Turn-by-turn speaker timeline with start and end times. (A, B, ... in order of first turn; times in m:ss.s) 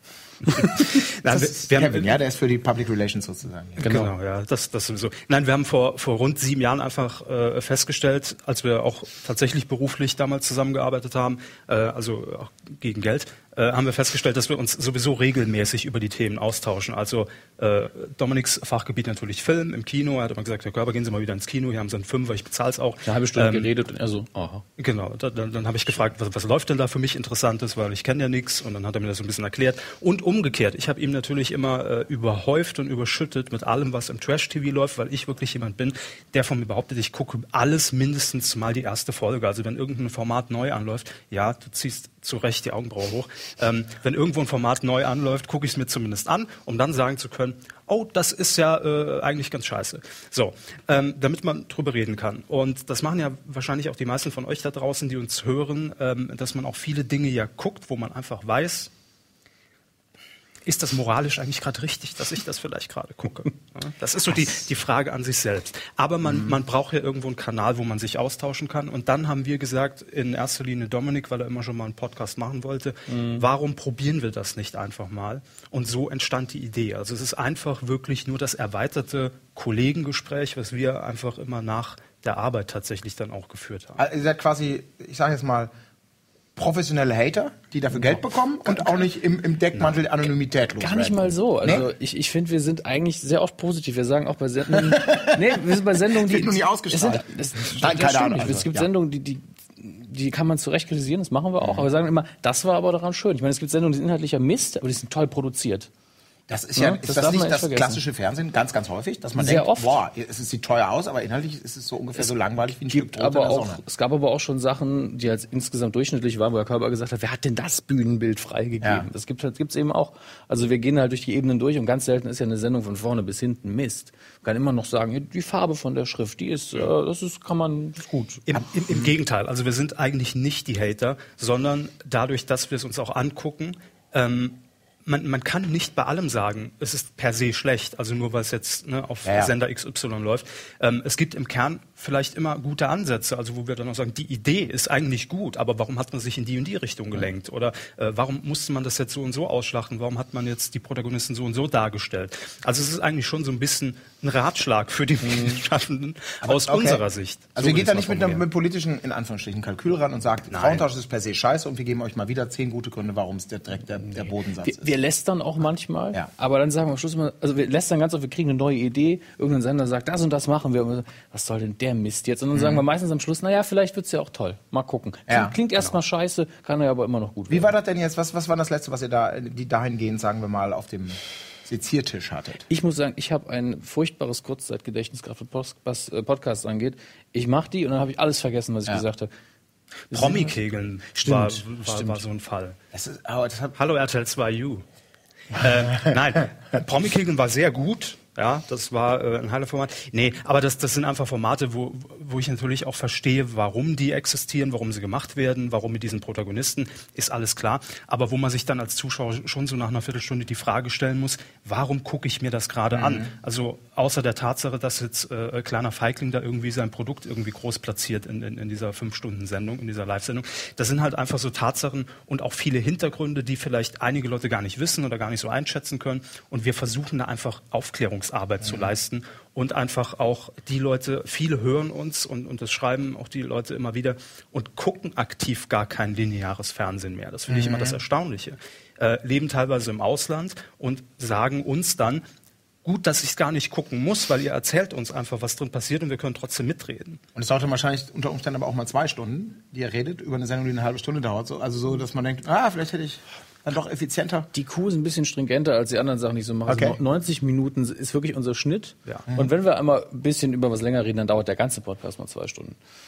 0:00.5-0:00.9 A
0:00.6-0:02.2 B
0:01.2-0:04.0 C
0:03.8-0:23.7 B
0:03.8-0:04.1 A
0:23.0-0:24.6 A
0:24.8-0:58.9 B
1:00.6-1:24.0 B
1:13.1-1:13.4 A
1:24.0-1:25.7 C
1:26.6-1:31.9 C
1:29.7-1:30.0 B
1:30.8-1:45.9 A
1:34.7-1:38.9 C
1:41.6-1:41.9 C
1:46.5-1:53.8 C
1:46.8-1:48.0 A
1:49.4-1:49.9 A
1:52.2-2:08.4 A
1:58.8-1:59.1 C
2:08.5-2:38.4 B
2:08.9-2:09.1 C
2:19.2-2:19.5 C
2:35.2-2:35.6 A
2:36.4-2:37.0 C
2:37.6-2:44.9 C
2:40.5-2:40.8 B
2:44.2-2:57.7 A
2:52.5-2:52.8 C
2:55.3-2:55.6 C
2:57.5-3:02.6 C
3:02.7-3:09.3 A
3:10.1-3:12.8 B
3:10.1-3:10.5 A
3:11.1-3:12.2 A
3:12.9-3:13.8 C
3:13.8-3:14.8 B
3:15.5-4:02.2 B
3:32.9-3:33.3 C
3:48.6-3:48.9 C
3:57.5-3:58.0 C
4:02.8-4:07.2 B
4:07.3-4:14.5 C
4:14.5-4:22.8 A
4:16.6-4:17.0 C
4:19.3-4:19.5 C